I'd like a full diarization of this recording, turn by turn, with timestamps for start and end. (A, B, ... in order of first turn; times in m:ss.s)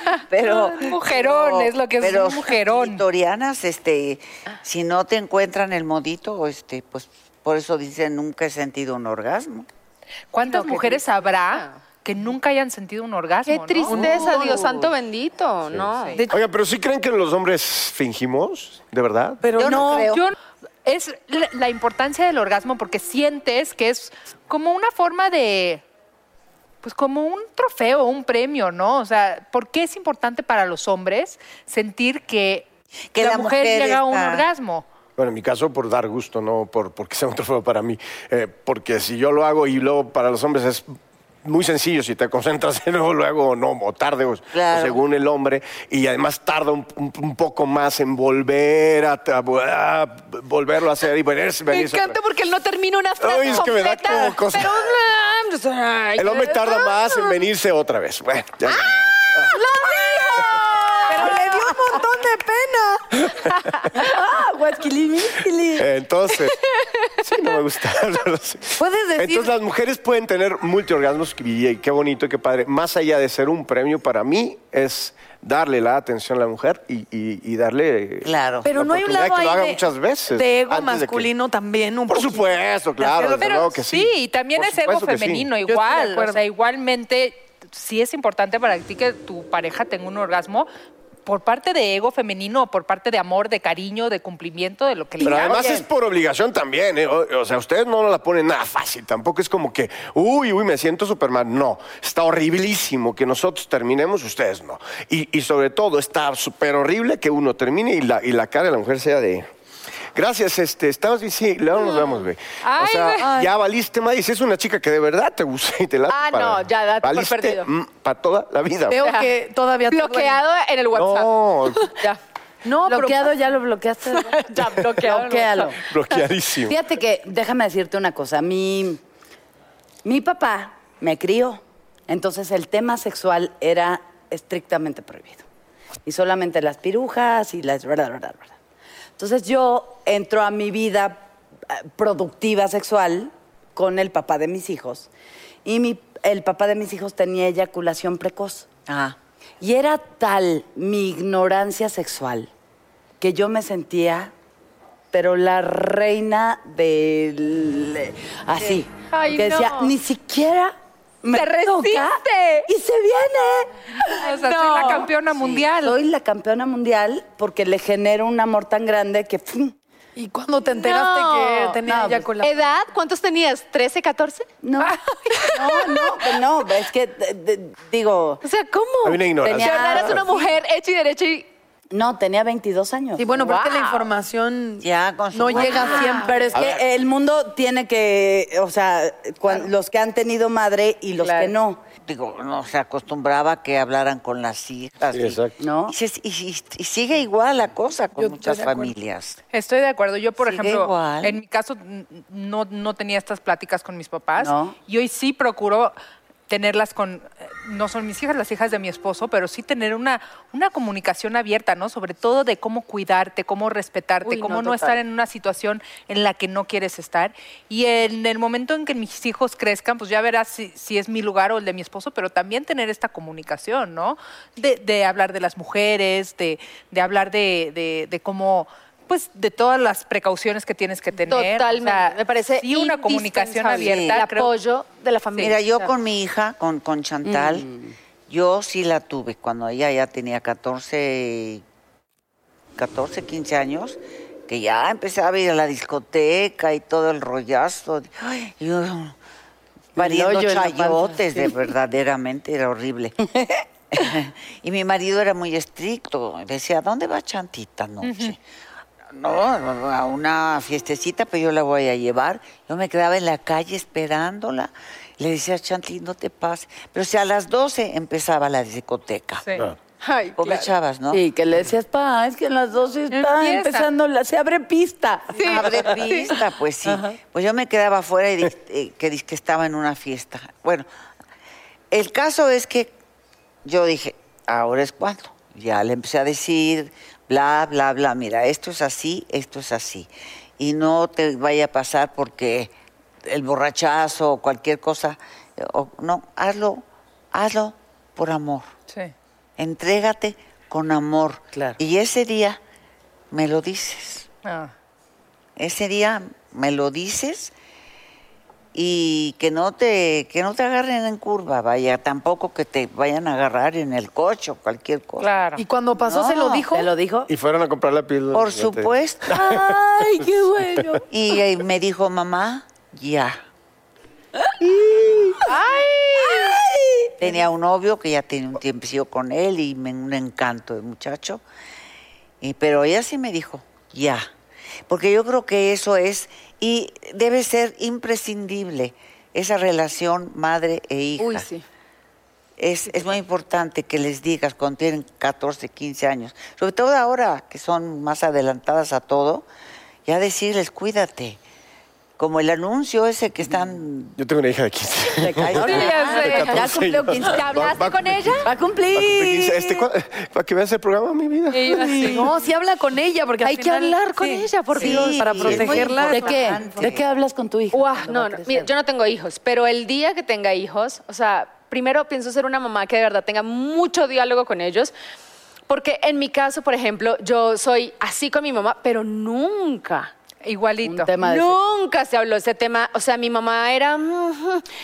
0:00.2-0:03.0 A
0:00.3-0:09.7 B
0:10.3-0:14.0 A
0:10.4-0:11.8 C
0:13.5-0:16.2 C
0:13.9-0:14.8 D
0:15.7-0:19.4 E
0:19.4-0:20.2 D
0:19.6-0:20.2 B
0:19.9-0:25.8 A
0:26.8-0:32.7 A
0:33.1-0:34.5 B
0:33.2-0:34.9 A
0:35.2-0:40.9 E
0:41.4-0:52.2 E
0:44.5-0:45.0 B
0:51.7-0:57.4 C
0:53.2-0:54.9 E
0:56.2-0:59.5 E
0:59.5-1:01.4 C
1:01.1-1:03.1 D
1:03.2-1:03.5 E
1:03.9-1:05.9 F
1:05.8-1:06.6 E
1:07.2-1:21.3 E
1:08.8-1:09.5 D
1:18.2-1:18.7 B
1:18.6-1:23.5 D
1:22.1-1:25.5 E
1:23.4-1:30.7 A
1:25.7-1:26.4 D
1:31.3-1:35.7 A
1:35.2-1:49.5 E
1:35.4-1:35.8 D
1:50.2-1:59.0 E
1:51.8-1:52.2 C
1:52.6-1:53.3 A
1:53.2-1:53.5 D
1:56.1-1:57.7 C
1:58.9-2:00.4 D
1:59.0-1:59.3 C
1:59.9-2:02.2 C
2:00.9-2:01.9 E
2:02.6-2:03.3 D
2:02.9-2:05.8 F
2:04.1-2:06.2 C
2:05.8-2:06.8 E
2:06.7-2:09.0 F
2:10.0-2:15.5 F
2:16.0-2:18.5 F
2:19.2-2:25.1 F
2:25.6-2:28.7 F
2:28.9-2:29.2 B
2:29.6-2:32.5 F
2:33.2-2:34.3 F
2:35.1-2:44.9 F
2:39.1-2:40.0 C
2:41.3-2:42.7 C
2:44.2-2:46.0 A
2:44.4-2:45.0 C
2:45.4-2:49.8 F
2:50.2-2:52.6 D
2:50.7-2:51.8 C
2:51.8-2:52.3 F
2:52.4-2:54.5 C
2:54.6-2:58.4 F
2:55.4-2:56.0 C
2:58.4-3:01.5 C
2:59.0-3:00.3 E
2:59.4-3:00.2 F
3:01.9-3:03.3 F
3:03.2-3:06.5 D
3:03.3-3:04.1 C
3:04.8-3:06.1 B
3:05.6-3:06.4 C
3:05.6-3:11.8 F
3:06.5-3:06.8 E
3:11.2-3:11.5 C
3:12.1-3:19.4 B
3:15.1-3:15.6 E
3:15.6-3:16.0 F
3:18.2-3:18.9 D
3:19.5-3:26.0 A
3:20.4-3:21.4 B
3:24.4-3:24.8 F
3:26.5-3:54.5 A
3:34.2-3:35.0 C
3:51.3-3:55.9 C
3:53.8-3:54.2 B
3:55.4-3:57.7 B
3:57.2-3:58.0 F
3:58.3-4:01.6 B
4:02.8-4:09.2 B
4:10.0-4:13.2 B
4:10.0-4:11.7 F
4:13.9-4:18.4 B
4:18.0-4:18.4 A
4:19.1-4:29.7 B
4:30.0-4:30.7 C
4:30.4-4:31.2 B
4:31.1-4:36.0 F
4:33.1-4:33.9 A
4:35.4-4:36.3 C
4:35.4-4:40.9 B
4:41.9-4:42.9 B
4:43.6-4:52.7 B
4:53.3-4:58.7 B
4:59.6-5:02.6 B
5:01.5-5:01.8 F
5:03.3-5:04.3 B
5:04.4-5:04.7 A
5:05.6-5:07.5 B
5:08.7-5:15.3 B
5:15.2-5:15.6 A
5:15.6-5:16.9 D
5:16.0-5:16.7 B
5:16.7-5:17.3 F
5:17.3-5:19.8 E
5:18.3-5:19.4 B
5:19.3-5:21.0 F
5:20.8-5:21.0 E
5:21.1-5:23.4 B
5:24.6-5:25.6 F
5:25.5-5:26.6 C
5:26.2-5:27.4 F
5:27.2-5:31.4 B
5:32.4-5:34.3 B
5:34.9-5:41.5 B
5:41.2-5:41.6 C
5:42.6-5:49.5 B
5:50.1-5:51.4 B
5:52.2-5:54.2 B
5:54.2-6:01.8 E
5:55.2-5:57.5 F
5:55.4-5:56.7 B
5:55.7-5:58.5 C
5:55.8-5:56.2 A
5:58.5-5:59.9 F
6:01.5-6:02.2 A
6:01.7-6:06.4 D
6:03.4-6:06.3 C
6:04.8-6:07.0 B
6:06.1-6:08.7 F
6:07.7-6:14.9 C
6:15.7-6:20.1 C
6:20.4-6:21.1 A
6:20.8-6:21.6 F
6:21.2-6:24.6 C